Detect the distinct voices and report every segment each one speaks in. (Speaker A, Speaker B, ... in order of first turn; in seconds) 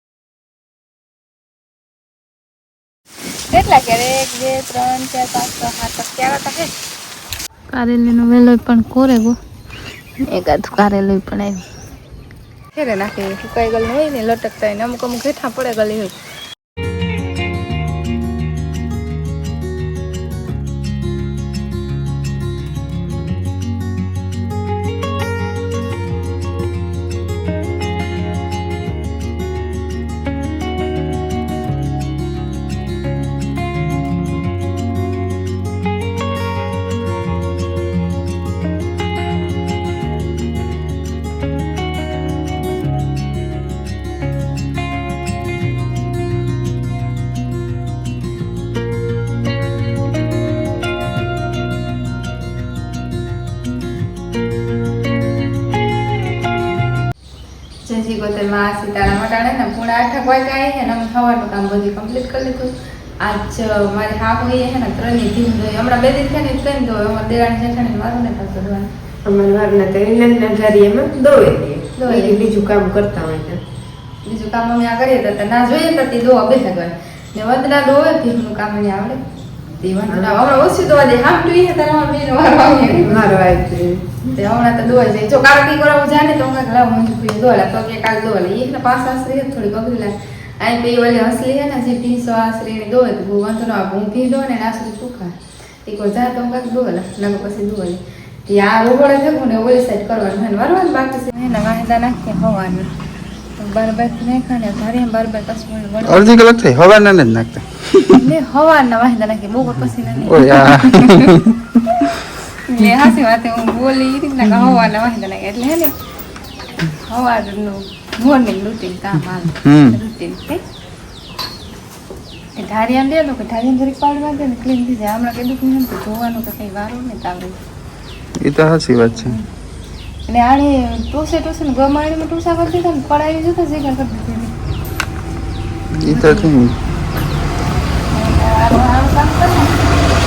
Speaker A: 3.3-6.7, 7.7-9.4, 10.2-11.7, 12.7-16.2, 57.8-68.9, 72.0-72.4, 74.2-79.2, 79.7-83.3, 84.3-102.9, 103.6-106.4, 108.1-111.4, 112.5-115.9, 116.9-120.6, 122.6-127.6, 129.2-129.5, 130.3-134.6, 136.0-136.5, 138.1-139.8
Speaker B: 69.3-73.6, 80.1-80.3, 83.0-84.2
Speaker C: 106.0-108.3, 109.8-112.2, 114.5-114.8, 119.6-120.0, 128.4-129.4, 135.9-136.8